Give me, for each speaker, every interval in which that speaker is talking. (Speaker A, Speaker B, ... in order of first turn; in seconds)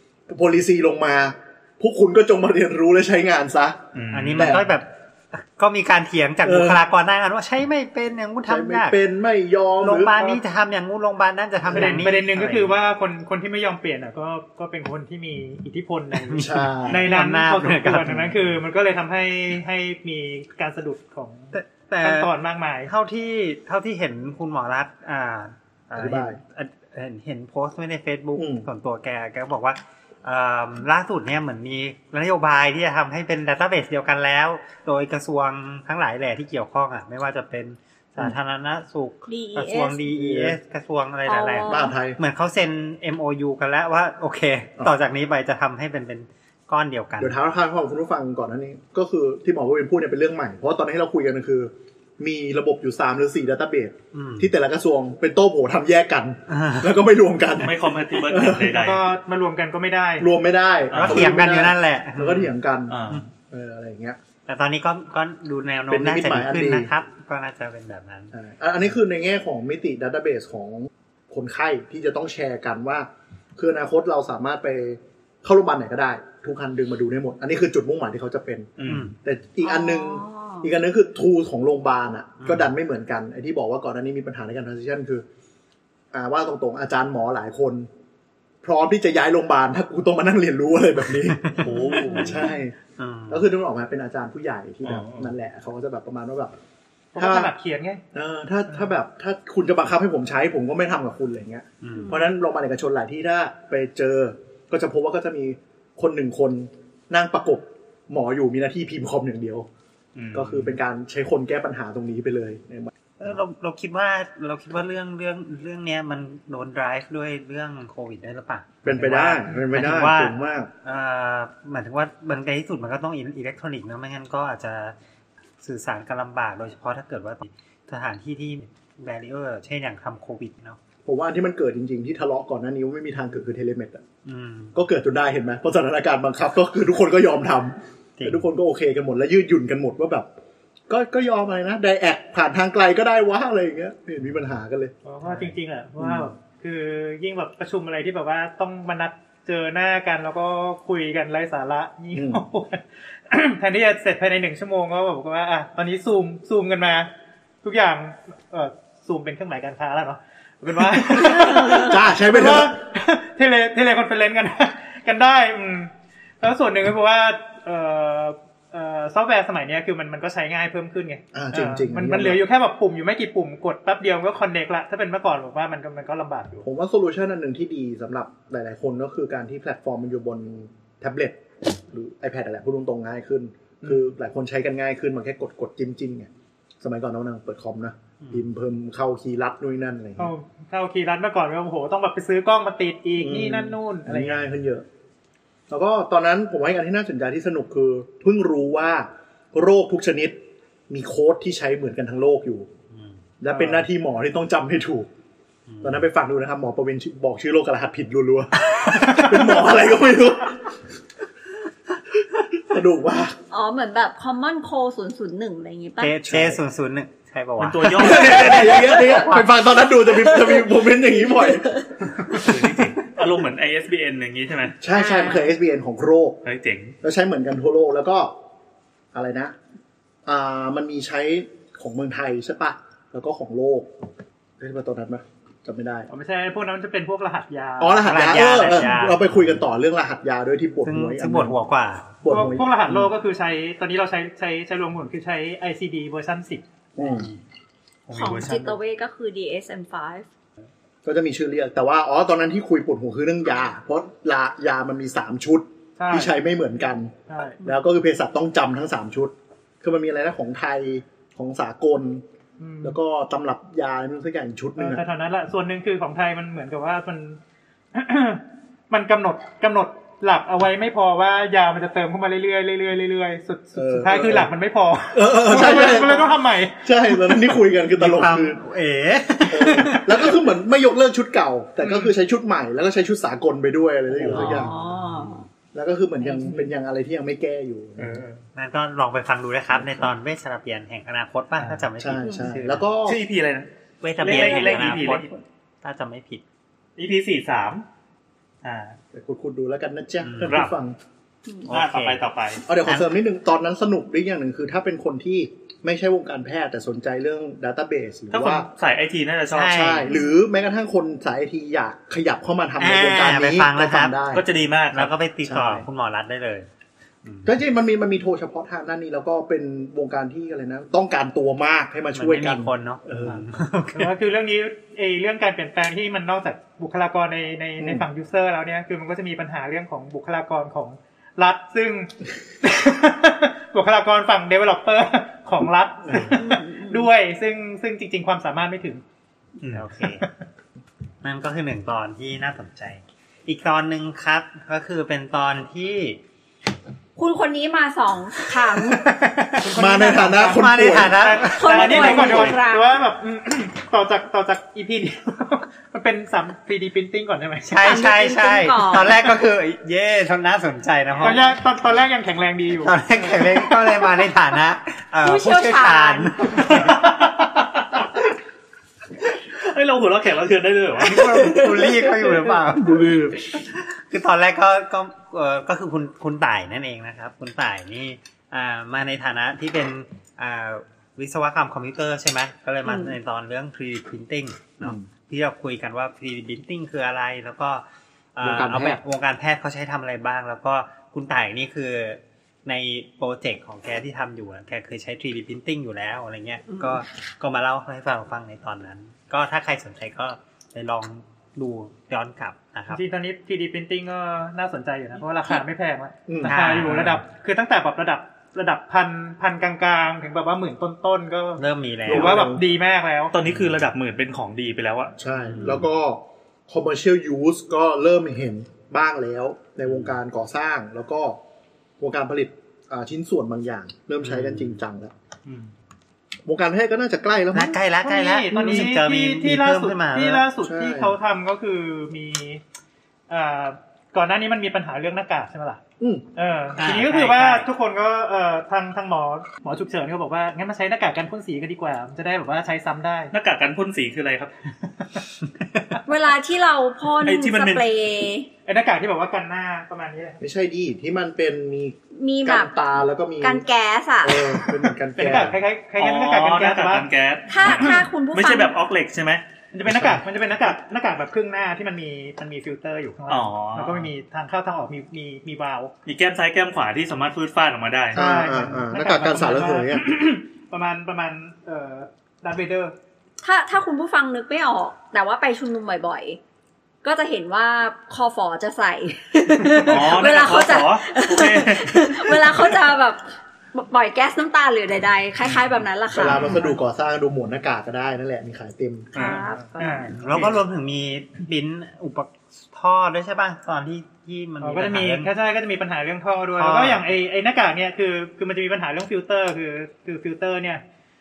Speaker A: 0.3-3.8, 4.4-4.7, 6.4-6.8, 8.5-10.4, 11.7-12.0, 16.4-17.1, 26.0-26.4, 28.4-28.7, 40.1-40.6, 41.6-42.2, 47.2-58.7, 60.2-64.2, 65.9-66.9, 68.3-85.2, 86.1-87.9, 88.6-92.8, 93.3-96.5, 97.2-97.5, 98.1-109.7, 110.3-112.9, 118.8-120.7, 131.1-134.0, 134.8-140.3, 140.9-144.9, 146.0-146.3, 152.1-152.4, 161.2-162.8, 171.3-172.4, 176.6-186.3, 186.8-190.3, 193.2-194.8, 195.7-202.7, 203.4-205.1, 205.8-210.6, 212.5-213.4, 216.3-216.6, 217.9-221.7, 224.8-226.4, 227.0-228.3, 229.1-229.6, 230.3-233.9, 234.6-236.1, 237.8-241.6, 242.2-243.1, 247.0-247.3, 251.1-262.2, 262.8-265.0, 273.8-274.5, 275.1-278.6, 279.5-284.7, 285.7-288.2, 289.8-290.1, 292.0-293.2, 299.1-300.9, 302.7-308.7, 309.6-314.4, 315.4-315.9, 317.4-323.4, 336.1-336.4, 349.7-351.3, 372.8-373.4, 384.8-385.1, 388.4-389.0, 406.3-406.6, 412.1-412.6, 415.2-421.4, 422.0-425.1, 426.5-427.8, 428.5-429.0, 430.6-431.2, 436.0-436.3, 450.4-453.6, 454.2-455.6, 459.9-460.2, 468.1-470.1, 486.1-489.1
Speaker B: 3.9-4.6, 57.6-59.1, 60.9-61.3, 62.9-63.3, 78.8-79.1, 91.5-92.5, 94.8-95.3, 110.2-110.8, 217.6-219.1, 222.3-224.8, 226.4-227.0, 248.1-248.8, 284.1-284.7, 288.0-288.4, 293.0-293.7, 294.2-295.3, 297.0-297.9, 298.6-299.0, 300.5-300.8, 301.7-302.6, 308.3-309.9, 314.3-315.1, 339.6-339.9, 351.7-352.6, 366.6-368.1, 369.6-372.2, 406.8-407.2, 413.3-415.2, 425.5-425.7, 443.3-444.5, 447.2-447.8, 456.0-459.4, 463.3-464.1, 466.1-468.2, 479.8-482.7, 489.1-489.6, 490.3-490.6
Speaker C: 4.1-9.0, 9.8-12.8, 16.2-18.5, 21.5-22.3, 22.8-47.4, 54.1-54.5, 56.5-57.0, 60.9-62.5, 64.5-68.3, 78.9-79.1, 82.4-82.7, 91.2-93.5, 101.8-102.2, 113.2-125.0, 125.6-130.8, 134.2-134.8, 138.2-138.5, 145.2-145.5, 202.9-203.2, 205.7-206.1, 216.0-219.4, 238.0-239.6, 240.8-242.2, 277.9-280.4, 284.3-285.4, 288.6-292.9, 294.0-295.3, 295.8-296.4, 300.2-300.6, 301.7-302.2, 302.9-303.1, 309.5-310.1, 312.8-314.2, 314.9-316.7, 317.2-317.5, 322.1-324.2, 339.7-340.2, 341.2-346.2, 350.5-352.0, 357.6-361.5, 362.8-367.0, 371.0-387.8, 388.4-403.0, 406.4-407.2, 411.6-412.6, 415.5-415.9, 424.2-424.8, 427.5-430.5, 436.8-437.7, 490.2-495.3, 496.6-497.1
Speaker D: 11.7-22.9, 58.7-60.3, 97.1-98.0, 145.0-157.1, 157.6-176.7, 183.8-184.1, 190.2-194.5, 203.5-203.8, 236.1-238.7, 242.3-246.6, 256.0-256.3, 257.3-257.6, 262.6-263.0, 264.8-267.4, 267.9-276.9, 281.8-282.1, 323.9-339.0, 349.1-357.7, 361.2-363.0, 366.7-367.0, 402.9-413.3, 428.0-432.6, 433.3-435.8, 436.4-443.3, 448.7-450.4, 455.1-457.1, 457.6-458.0, 459.7-465.9, 468.1-472.9, 489.8-490.5, 494.6-500.8
Speaker E: 39.3-40.0, 41.3-42.0, 79.6-80.7, 102.0-102.3, 213.5-216.2, 220.2-221.8, 224.9-225.5, 248.1-250.3, 284.3-285.5, 294.2-295.3, 336.3-337.1, 347.2-349.1, 351.4-353.0, 357.8-359.3, 365.2-366.4, 382.9-383.1, 446.1-448.5, 452.1-452.7, 453.4-454.7, 457.5-458.7, 473.4-476.4, 477.0-486.6, 489.1-490.1